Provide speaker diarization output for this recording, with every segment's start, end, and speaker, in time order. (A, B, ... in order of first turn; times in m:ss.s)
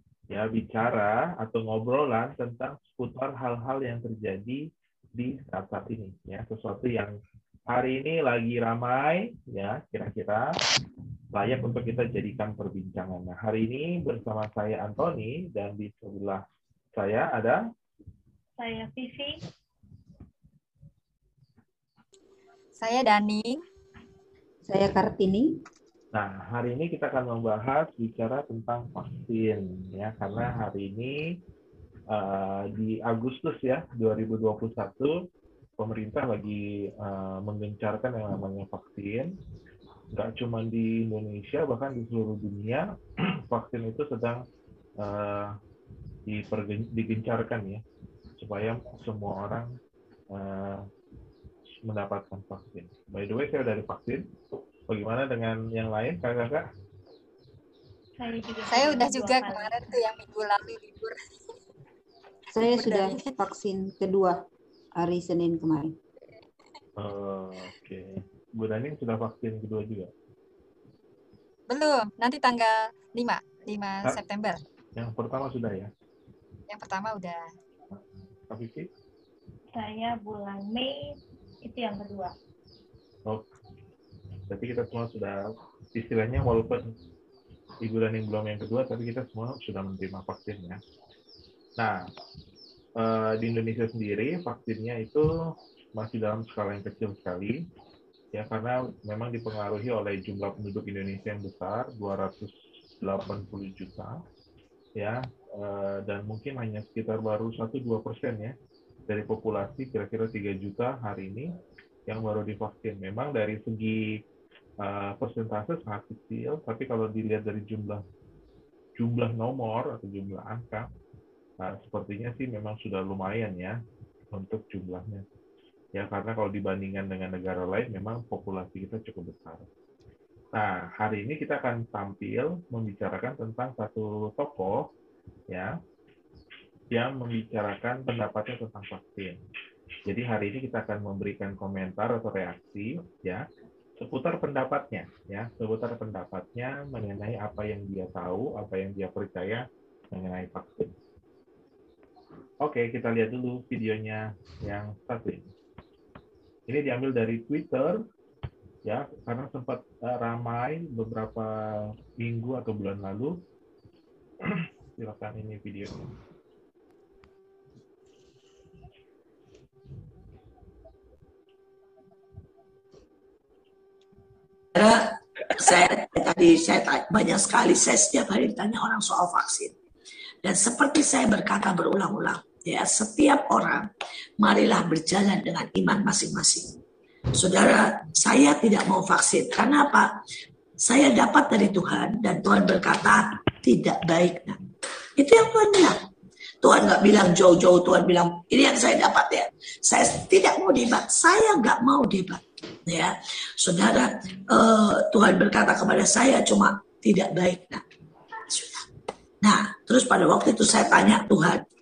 0:00.3-0:04.7 A
0:05.2-0:07.2 A
0:07.7-0:10.6 A
0:11.3-0:16.4 A
0:17.0-0:17.6 A
0:18.6-0:19.4 B
0:22.8-0:23.6 C
0:24.6-0:25.5 D
0:26.1-0:31.3 A
0:32.1-0:35.2 A
0:35.8-0:39.3 A
0:40.1-0:44.4 A
0:45.0-0:45.6 A
0:46.3-0:47.8 A
0:48.4-0:49.8 A
0:50.3-0:50.9 A
0:51.8-0:54.3 A
0:54.9-0:56.7 A
0:58.2-0:59.9 B
0:58.7-1:01.2 C
1:02.5-1:04.4 D
1:02.7-1:03.3 C
1:05.0-1:06.0 D
1:07.0-1:10.1 A
1:11.7-1:14.6 C
1:15.0-1:15.9 A
1:16.7-1:17.5 C
1:17.9-1:18.9 A
1:19.7-1:21.1 B
1:21.6-1:22.3 B
1:24.5-1:25.4 A
1:25.9-1:26.9 A
1:27.8-1:30.8 A
1:31.8-1:32.1 A
1:33.0-1:37.7 A
1:38.3-1:44.2 A
1:45.0-1:48.6 A
1:49.1-1:51.5 A
1:52.1-1:54.2 A
1:54.8-1:58.0 A
1:59.0-2:00.9 A
2:01.6-2:03.8 A
2:04.3-2:05.2 A
2:06.0-2:09.7 A
2:10.5-2:14.9 A
2:16.9-2:19.4 A
2:20.1-2:23.4 A
2:24.0-2:30.9 A
2:32.6-2:35.5 A
2:36.7-2:38.0 A
2:38.8-2:43.4 A
2:44.4-2:46.0 A
2:54.8-2:59.8 E
3:00.4-3:03.9 E
3:04.4-3:06.8 E
3:07.4-3:10.1 E
3:10.8-3:14.6 E
3:15.2-3:16.0 E
3:16.6-3:27.8 E
3:28.5-3:28.8 E
3:29.4-3:31.6 E